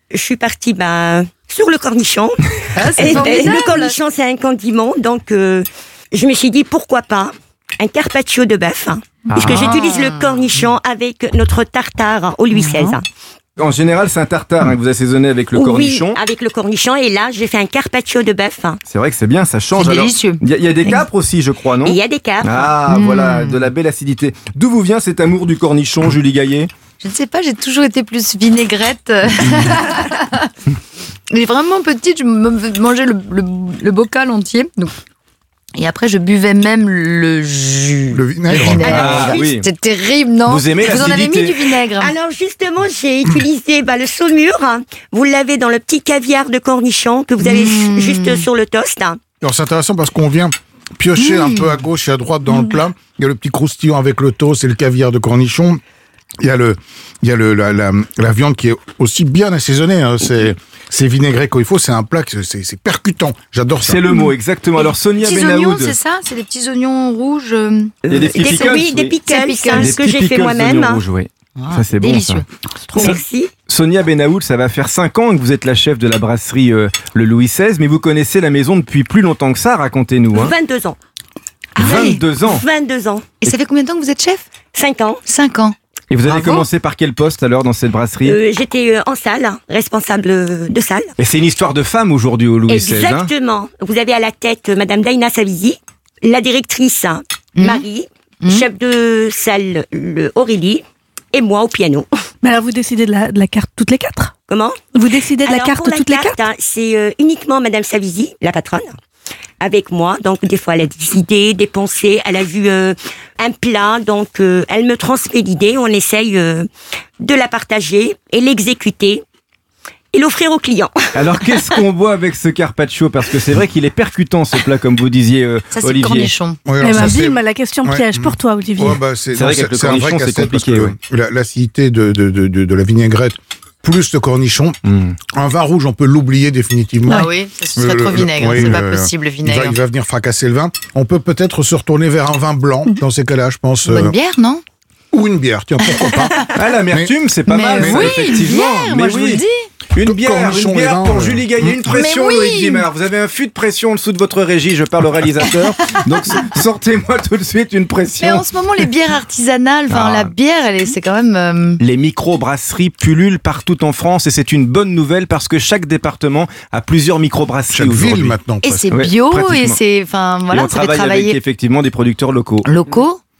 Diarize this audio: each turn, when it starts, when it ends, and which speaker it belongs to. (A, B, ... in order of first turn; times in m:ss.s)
0:00.1-0:13.0 A
0:02.8-0:04.0 B
0:09.3-0:09.8 C
0:09.4-0:10.5 B
0:12.5-0:13.0 B
0:13.6-0:16.2 C
0:15.6-0:18.8 A
0:18.9-0:26.7 C
0:19.8-0:20.4 B
0:21.8-0:22.7 A
0:22.9-0:23.7 B
0:27.0-0:30.5 B
0:31.3-0:34.9 B
0:35.8-0:42.2 B
0:38.1-0:39.0 D
0:38.8-0:39.7 C
0:38.8-0:39.5 A
0:40.5-0:41.7 C
0:42.0-0:49.2 A
0:47.4-0:48.4 B
0:49.4-0:55.8 D
0:51.2-0:51.8 B
0:56.4-1:04.0 D
1:03.8-1:06.0 C
1:05.2-1:10.0 B
1:08.1-1:11.0 A
1:08.1-1:09.2 C
1:09.7-1:20.5 C
1:11.6-1:13.2 B
1:12.9-1:13.5 A
1:20.3-1:21.0 A
1:21.8-1:22.6 C
1:21.8-1:22.2 B
1:22.4-1:23.3 A
1:23.4-1:24.4 B
1:24.7-1:25.2 A
1:25.3-1:25.8 B
1:26.1-1:28.4 C
1:28.2-1:31.2 A
1:31.2-1:33.3 C
1:32.7-1:42.1 A
1:37.6-1:37.8 B
1:42.4-1:44.3 E
1:44.5-1:44.9 A
1:44.9-1:46.4 E
1:45.4-1:49.0 A
1:49.6-1:56.7 A
1:57.2-1:59.2 A
2:00.1-2:01.0 A
2:01.2-2:06.3 C
2:05.7-2:06.6 B
2:06.7-2:14.8 D
2:06.8-2:09.0 E
2:09.3-2:11.0 C
2:14.8-2:15.2 C
2:15.3-2:24.2 D
2:17.1-2:19.8 B
2:23.8-2:24.6 B
2:25.1-2:27.1 D
2:25.9-2:26.5 B
2:26.5-2:38.9 C
2:27.5-2:29.7 B
2:27.7-2:28.5 D
2:30.0-2:31.8 D
2:31.9-2:32.9 B
2:38.2-2:41.8 B
2:39.9-2:40.3 C
2:41.8-2:48.4 C
2:47.7-2:48.9 D
2:48.6-2:51.4 B
2:48.9-2:49.8 C
2:50.5-2:52.7 C
2:52.6-2:53.2 B